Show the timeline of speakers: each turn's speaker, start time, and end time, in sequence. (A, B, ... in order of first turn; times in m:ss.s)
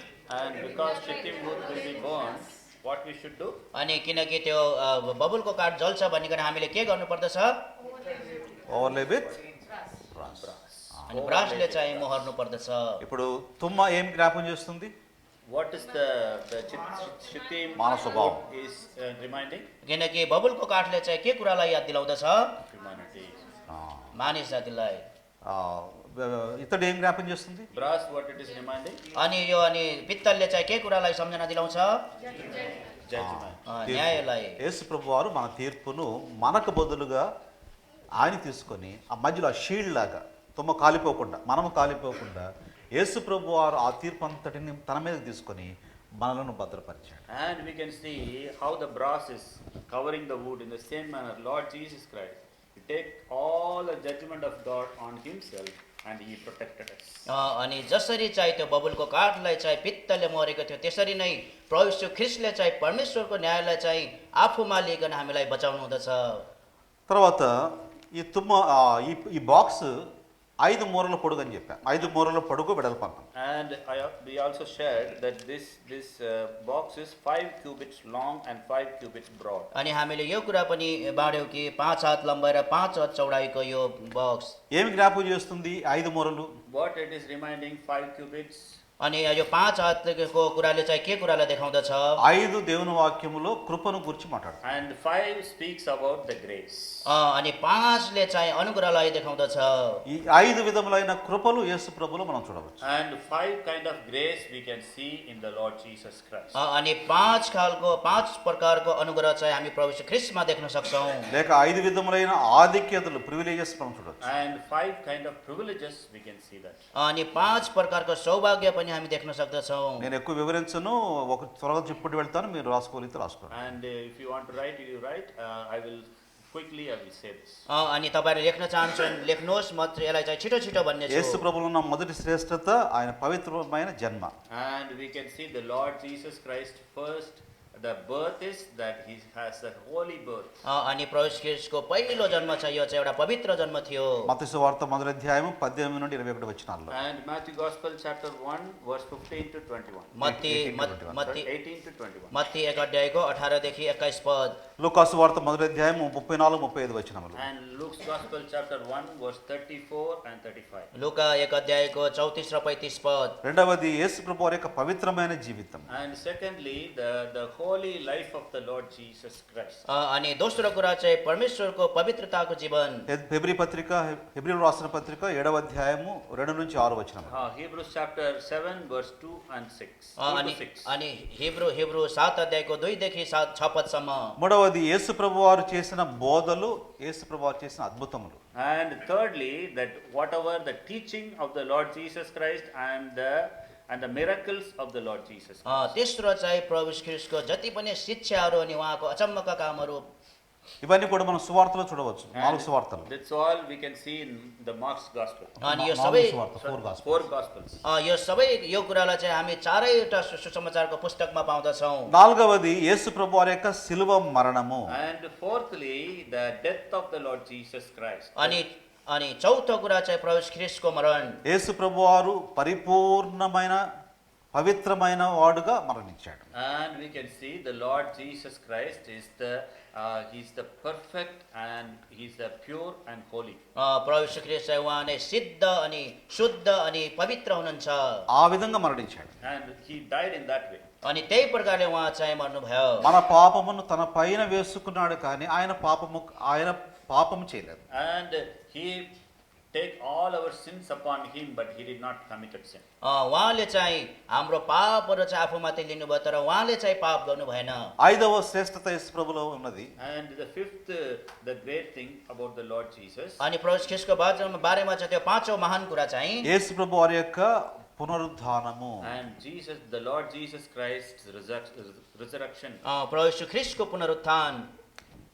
0:00.3-0:03.6 A
0:03.7-0:07.6 B
0:08.7-0:09.3 C
0:10.1-0:11.1 C
0:10.3-0:12.3 A
0:11.1-0:13.0 B
0:13.0-0:14.9 C
0:15.5-0:19.7 A
0:17.8-0:18.4 C
0:19.8-0:22.5 B
0:22.6-0:23.4 A
0:23.7-0:24.1 C
0:24.2-0:25.0 B
0:25.5-0:27.7 C
0:27.7-0:29.0 A
0:29.2-0:31.9 B
0:33.1-0:33.6 A
0:33.1-0:37.2 C
0:33.7-0:34.6 B
0:38.2-0:42.4 C
0:43.0-0:47.2 C
0:47.3-0:57.3 A
0:57.3-1:06.4 B
1:07.1-1:09.9 C
1:10.6-1:13.2 C
1:13.3-1:19.7 A
1:19.7-1:24.6 B
1:24.7-1:26.5 C
1:26.7-1:28.8 A
1:29.0-1:32.2 B
1:32.2-1:34.6 C
1:34.6-1:37.1 A
1:37.0-1:40.0 B
1:40.1-1:42.8 C
1:42.8-1:46.6 A
1:46.5-1:51.3 B
1:51.3-1:54.2 C
1:54.2-1:56.9 A
1:56.9-2:00.1 B
2:00.0-2:03.6 C
2:03.5-2:07.6 A
2:07.7-2:11.4 B
2:11.1-2:14.3 C
2:14.5-2:20.6 A
2:20.6-2:24.3 B
2:24.3-2:27.0 C
2:26.9-2:30.1 A
2:30.2-2:31.4 B
2:30.2-2:31.4 C
2:31.3-2:32.3 A
2:32.3-2:34.6 B
2:34.8-2:37.4 C
2:37.4-2:40.9 A
2:40.9-2:43.4 B
2:43.4-2:45.9 C
2:45.9-2:49.8 A
2:49.9-2:53.1 B
2:53.1-2:57.4 C
2:57.2-3:00.9 A
3:00.2-3:04.4 B
3:04.4-3:08.4 C
3:08.6-3:15.9 A
3:15.6-3:20.0 B
3:20.8-3:23.1 C
3:22.3-3:25.6 A
3:25.6-3:27.3 C
3:25.6-3:26.4 B
3:26.6-3:27.8 A
3:27.8-3:32.1 B
3:32.1-3:34.9 C
3:34.9-3:38.6 A
3:38.4-3:41.4 B
3:41.5-3:43.8 C
3:44.5-3:46.5 C
3:46.5-3:53.6 A
3:53.8-3:58.2 B
3:58.4-3:59.3 C
3:59.4-4:00.8 A
4:01.0-4:03.1 B
4:03.0-4:07.8 C
4:07.9-4:09.2 A
4:09.7-4:12.8 A
4:13.0-4:17.9 B
4:18.0-4:19.9 C
4:20.0-4:23.4 A
4:23.4-4:26.5 B
4:26.4-4:29.1 C
4:29.0-4:32.8 A
4:32.8-4:34.7 B